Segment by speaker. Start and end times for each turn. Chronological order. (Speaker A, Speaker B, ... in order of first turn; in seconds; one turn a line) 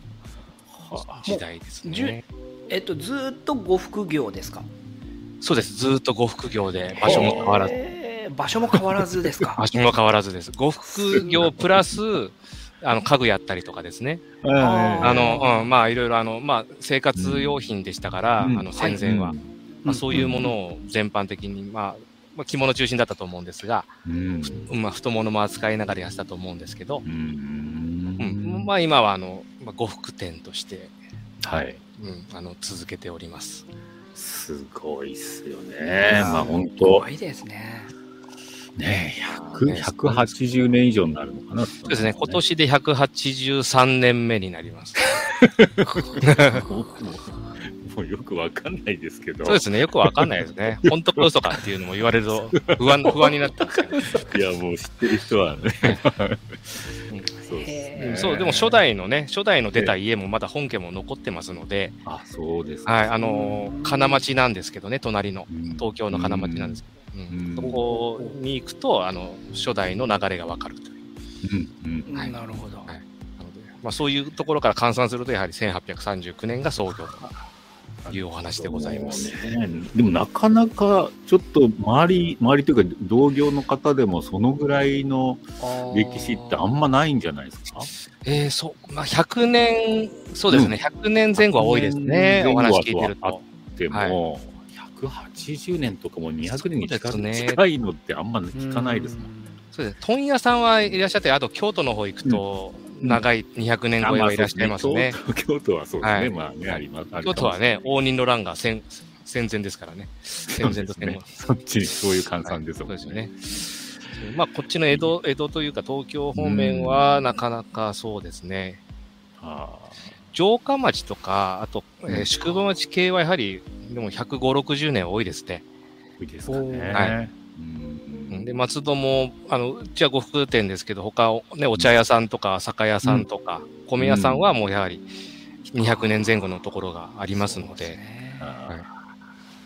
Speaker A: 0.7-1.2
Speaker B: 1.2-2.2
Speaker C: 1.3-4.7
Speaker B: 5.4-7.7
Speaker C: 7.0-9.6
Speaker A: 7.0-7.6
Speaker B: 9.6-14.2
Speaker A: 10.9-12.0
Speaker A: 14.4-15.3
Speaker C: 14.6-15.7
Speaker B: 15.0-23.9
Speaker A: 17.1-17.6
Speaker A: 18.4-20.5
Speaker C: 19.9-20.3
Speaker A: 24.0-24.7
Speaker B: 24.4-27.0
Speaker A: 27.0-28.7
Speaker B: 28.2-30.9
Speaker A: 31.4-31.8
Speaker B: 32.0-33.6
Speaker A: 34.1-37.1
Speaker C: 36.1-37.9
Speaker A: 38.8-42.4
Speaker B: 39.4-40.3
Speaker B: 41.8-45.0
Speaker A: 45.1-51.5
Speaker B: 46.2-46.6
Speaker B: 49.4-54.0
Speaker A: 52.5-53.3
Speaker C: 53.9-54.3
Speaker A: 54.2-58.7
Speaker C: 57.5-58.5
Speaker B: 57.9-62.0
Speaker A: 62.0-63.1
Speaker B: 62.9-71.0
Speaker C: 63.2-64.2
Speaker A: 65.5-67.8
Speaker C: 67.9-68.3
Speaker A: 71.4-72.1
Speaker C: 72.1-72.9
Speaker B: 72.9-77.3
Speaker A: 78.0-87.9
Speaker B: 78.1-79.3
Speaker C: 85.6-86.7
Speaker B: 88.2-94.2
Speaker A: 90.5-90.8
Speaker A: 91.3-99.3
Speaker B: 96.5-97.6
Speaker C: 98.5-99.6
Speaker B: 99.7-105.2
Speaker A: 104.0-107.6
Speaker B: 106.0-111.3
Speaker A: 110.5-113.9
Speaker B: 112.4-113.3
Speaker B: 114.2-118.8
Speaker A: 116.3-117.2
Speaker A: 119.4-120.0
Speaker B: 120.3-125.6
Speaker A: 122.1-122.5
Speaker A: 126.2-128.6
Speaker C: 126.5-127.0
Speaker B: 128.3-135.1
Speaker A: 134.0-134.5
Speaker B: 135.7-138.0
Speaker C: 135.7-136.3
Speaker C: 137.3-138.5
Speaker A: 138.4-138.9